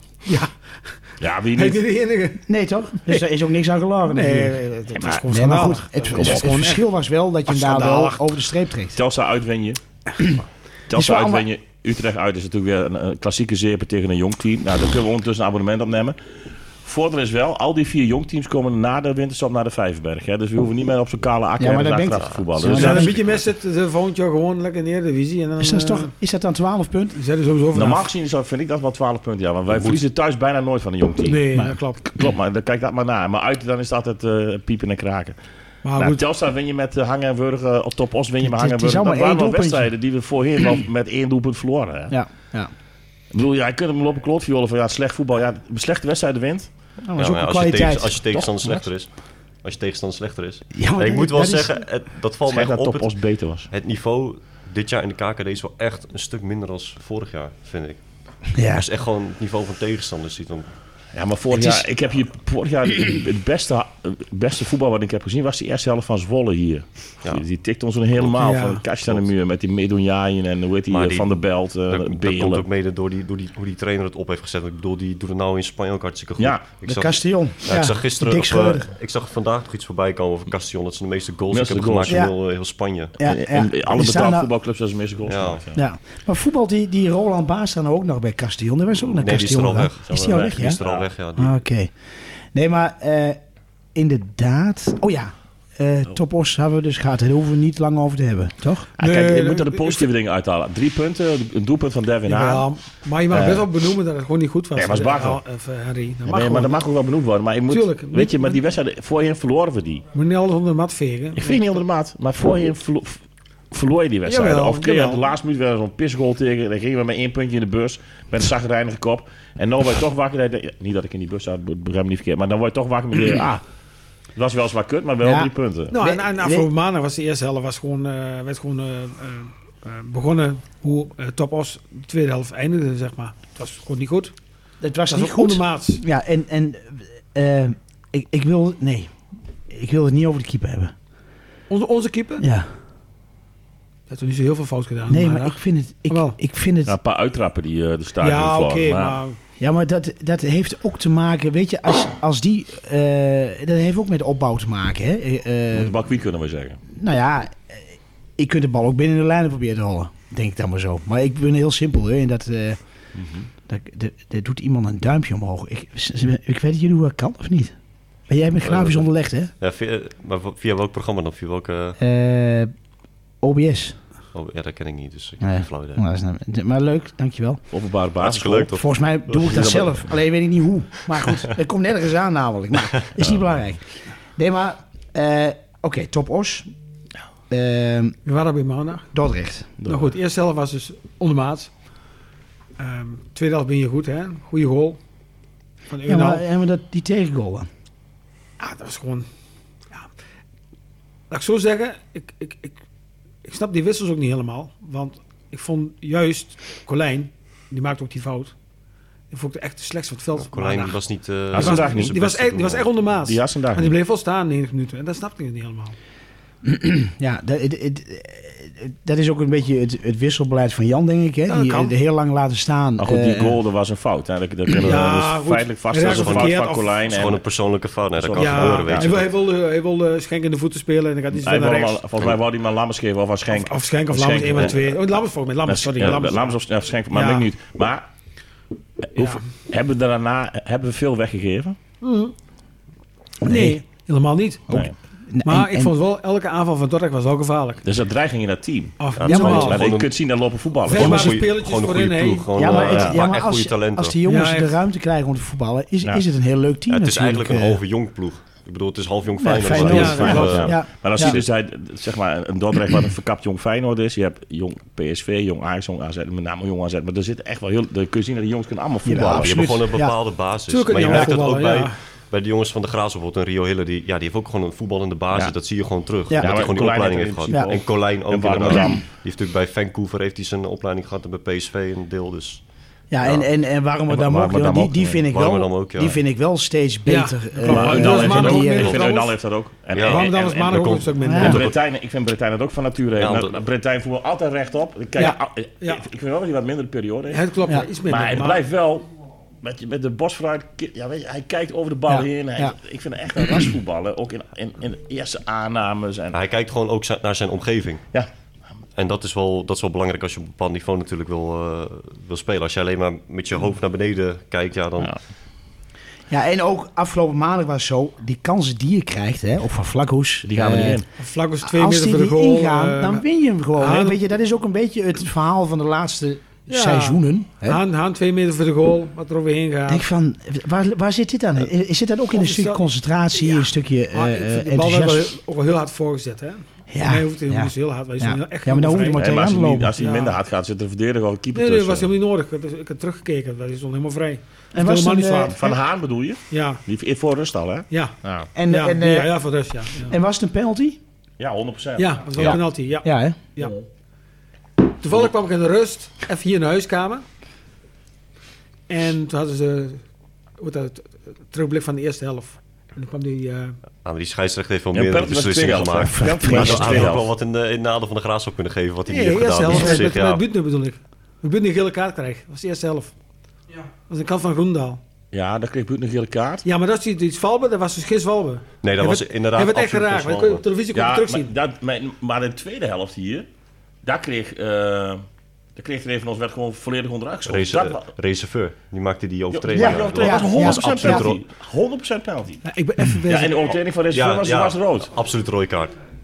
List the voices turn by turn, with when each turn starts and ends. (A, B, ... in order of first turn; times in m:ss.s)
0:00.2-0:01.0 A
0:01.2-0:01.8 B
0:01.6-0:02.4 A
0:02.5-0:04.6 C
0:04.1-0:06.8 A
0:05.0-0:05.2 B
0:05.2-0:09.0 C
0:06.2-0:06.5 B
0:07.5-0:08.2 A
0:09.0-0:09.8 B
0:10.2-0:11.4 C
0:10.9-0:16.2 B
0:16.8-0:23.2 B
0:21.6-0:23.2 C
0:22.2-0:22.5 D
0:22.7-0:26.1 A
0:25.6-0:27.2 C
0:27.2-0:28.1 A
0:27.7-0:31.4 B
0:29.7-0:30.0 D
0:31.3-0:32.0 A
0:32.0-0:35.4 B
0:35.8-0:36.2 A
0:36.0-0:42.2 B
0:38.4-0:39.9 C
0:42.1-0:42.7 C
0:43.3-0:46.7 B
0:47.0-0:48.4 C
0:47.2-0:53.2 D
0:50.7-0:51.7 C
0:52.5-0:53.7 B
0:53.7-1:00.7 D
0:58.6-0:58.9 C
1:01.1-1:12.6 B
1:08.4-1:08.8 A
1:09.0-1:09.3 D
1:10.9-1:23.2 D
1:16.4-1:16.6 B
1:16.8-1:18.9 C
1:21.5-1:22.3 B
1:22.1-1:22.3 C
1:23.2-1:24.5 C
1:23.2-1:25.8 B
1:25.3-1:25.6 D
1:25.8-1:30.8 C
1:29.0-1:31.6 D
1:30.1-1:31.1 B
1:31.4-1:31.9 C
1:32.5-1:33.4 C
1:34.0-1:38.9 C
1:39.0-1:42.7 B
1:39.0-1:40.1 A
1:42.3-1:46.8 A
1:43.3-1:43.7 B
1:44.8-1:45.4 B
1:46.2-1:50.0 B
1:47.7-1:48.6 A
1:50.1-1:51.6 A
1:51.4-2:03.6 B
1:54.3-1:55.2 A
2:04.4-2:06.0 B
2:05.2-2:06.7 C
2:05.9-2:14.3 A
2:14.8-2:19.1 C
2:15.1-2:16.0 A
2:19.7-2:20.9 C
2:21.7-2:22.4 A
2:22.4-2:22.7 C
2:24.1-2:25.6 A
2:25.1-2:26.9 C
2:26.1-2:26.4 A
2:26.8-2:29.2 B
2:28.2-2:29.4 A
2:29.6-2:35.9 C
2:35.7-2:36.8 B
2:37.0-2:37.8 C
2:38.4-2:42.8 C
2:43.2-2:43.5 B
2:43.7-2:47.7 C
2:48.3-2:49.5 C
2:48.6-2:49.0 D
2:49.6-2:52.0 D
2:52.0-2:52.7 C
2:53.4-2:54.0 C
2:54.3-2:56.0 D
2:55.4-2:57.6 C
2:57.7-2:58.7 B
2:58.2-2:59.9 D
2:58.7-3:03.8 C
2:59.5-2:59.9 B
3:04.4-3:06.7 C
3:07.5-3:08.2 C
3:08.3-3:09.1 A
3:09.1-3:09.7 C
3:09.8-3:10.1 B
3:09.8-3:11.7 A
3:12.8-3:15.0 A
3:15.9-3:16.4 A
3:16.1-3:17.7 C
3:18.6-3:19.3 A
3:21.3-3:22.8 A
3:23.4-3:28.5 A
3:29.3-3:31.0 A
3:30.4-3:32.9 D
3:31.5-3:32.2 B
3:31.5-3:36.0 A
3:33.2-3:34.0 B
3:36.6-3:43.6 C
3:41.5-3:41.9 A
3:43.0-3:47.4 B
3:44.8-3:47.0 A
3:46.0-3:49.3 D
3:48.2-3:49.2 B
3:48.4-3:52.0 A
3:51.3-3:55.0 B
3:53.5-3:56.6 A
3:55.6-3:58.1 B
3:57.1-3:57.5 A
3:59.0-4:01.8 B
4:02.0-4:02.3 A
4:03.4-4:03.8 C
4:03.5-4:04.7 A
4:04.7-4:05.9 C
4:04.7-4:05.0 B
4:05.4-4:07.8 A
4:07.8-4:11.4 B
4:09.0-4:09.9 A
4:09.2-4:10.2 D
4:09.3-4:09.8 C
4:10.9-4:12.8 A
4:10.9-4:14.2 D
4:12.6-4:17.8 C
4:12.7-4:13.2 B
4:14.3-4:14.8 A
4:16.9-4:21.4 D
4:19.4-4:21.4 C
4:19.7-4:29.8 B
4:19.8-4:20.7 A
4:29.0-4:30.2 C
4:29.2-4:42.6 D
4:30.7-4:32.0 A
4:36.3-4:36.6 C
4:36.3-4:39.0 B
4:43.1-4:49.1 C
4:43.2-4:43.5 D
4:44.1-4:45.2 B
4:45.3-4:46.2 D
4:47.1-4:49.4 A
4:47.6-4:57.5 B
4:49.9-4:51.8 D
4:50.0-4:51.6 A
4:51.2-4:51.6 C
4:53.2-4:53.6 D
4:55.2-4:56.0 A
4:57.3-4:58.6 A
4:58.0-4:59.1 B
4:59.6-5:06.4 B
5:02.1-5:02.8 C
5:06.3-5:08.0 D
5:09.0-5:15.1 D
5:16.3-5:21.0 C
5:20.5-5:21.0 B
5:21.2-5:23.2 A
5:21.6-5:27.8 C
5:23.8-5:24.2 A
5:26.7-5:30.0 A
5:29.9-5:35.3 C
5:32.3-5:32.8 A
5:33.4-5:39.3 A
5:36.9-5:39.9 C
5:39.1-5:42.1 B
5:40.0-5:40.4 A
5:41.5-5:45.8 A
5:44.7-5:45.6 C
5:45.5-5:48.5 B
5:46.5-5:46.8 A
5:47.9-5:48.2 A
5:48.6-5:49.4 C
5:48.7-5:50.1 A
5:50.1-5:51.0 C
5:51.4-5:52.6 B
5:52.0-5:53.8 A
5:52.4-5:53.4 C
5:55.0-5:57.2 A
5:58.9-6:00.0 A
6:00.6-6:03.8 A
6:04.0-6:10.4 D
6:04.9-6:07.3 B
6:06.0-6:07.1 C
6:09.1-6:13.1 A
6:09.7-6:10.1 C
6:14.0-6:15.0 A
6:15.3-6:16.6 B
6:16.6-6:21.5 A
6:18.8-6:20.6 D
6:20.9-6:23.5 B
6:24.0-6:25.2 B
6:25.8-6:28.1 B
6:27.5-6:31.4 D
6:29.5-6:32.6 B
6:29.7-6:31.3 C
6:32.6-6:33.7 A
6:33.2-6:35.1 B
6:34.1-6:36.0 D